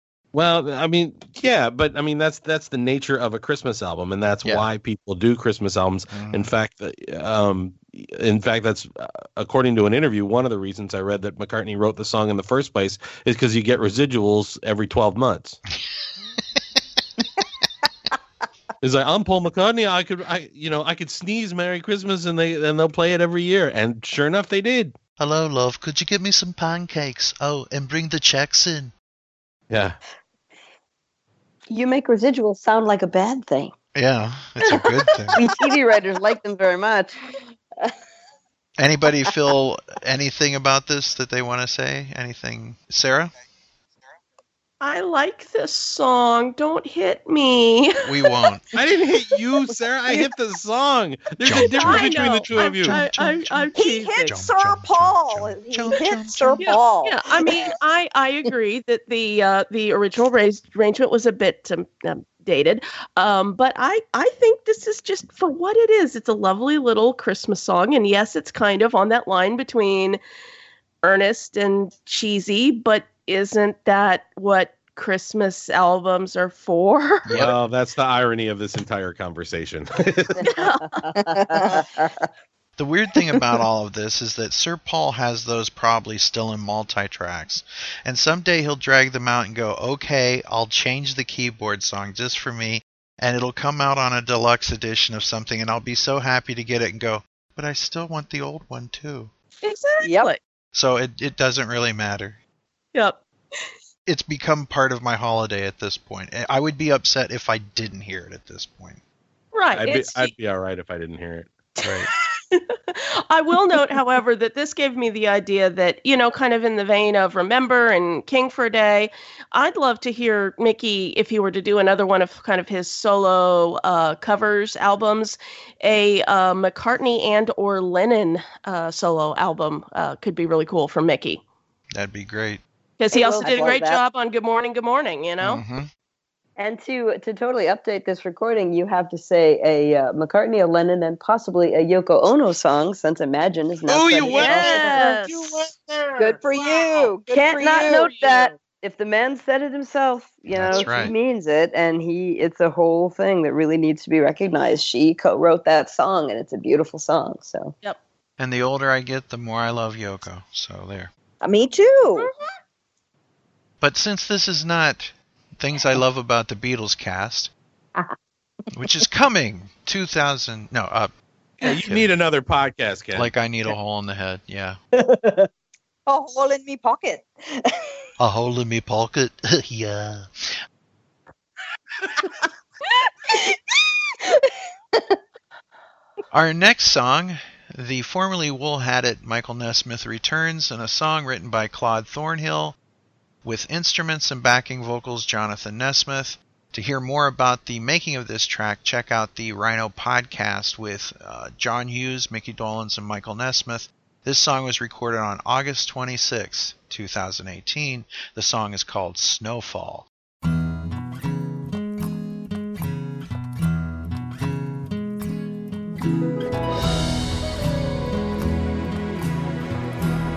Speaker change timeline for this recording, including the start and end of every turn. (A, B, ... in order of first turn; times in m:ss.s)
0:00.3-0:15.6 A
0:06.1-0:06.5 B
0:18.8-0:25.0 A
0:25.2-0:28.9 B
0:29.7-0:30.0 A
0:31.7-0:33.7 C
0:34.0-0:35.4 B
0:35.4-0:37.2 C
0:38.8-0:43.3 B
0:44.8-0:48.3 D
0:48.0-0:48.7 B
0:48.7-0:53.0 A
0:51.4-0:56.7 B
0:51.5-0:54.3 D
0:53.8-0:57.7 E
0:56.6-1:10.2 D
1:11.0-1:17.3 D
1:17.3-1:17.6 B
1:17.3-1:20.5 A
1:20.5-1:20.8 D
1:21.1-1:22.1 C
1:21.2-1:21.9 E
1:22.8-1:39.3 B
1:39.6-1:40.4 D
1:40.0-1:40.3 E
1:40.7-1:42.4 B
1:43.0-1:43.2 D
1:44.1-1:49.0 B
1:49.5-1:50.3 D
1:49.7-1:51.5 A
1:52.5-2:11.4 D
2:12.0-2:12.6 B
2:13.0-2:15.6 D
2:13.1-2:14.0 C
2:15.4-2:15.9 B
2:16.6-2:25.0 C
2:23.9-2:24.7 A
2:24.2-2:25.6 D
2:24.5-2:25.2 E
2:26.2-2:28.1 E
2:26.5-2:27.1 D
2:27.3-2:37.7 C
2:27.7-2:28.5 D
2:30.5-2:31.1 B
2:38.4-2:41.1 B
2:41.4-2:42.3 E
2:43.8-2:47.5 B
2:48.7-2:51.1 B
2:51.6-2:53.3 A
2:51.8-2:52.1 B
2:53.2-2:54.8 B
2:55.1-2:55.4 C
2:56.1-2:57.9 E
2:58.2-3:00.6 B
3:03.3-3:03.6 E
3:06.3-3:12.8 B
3:13.4-3:30.1 B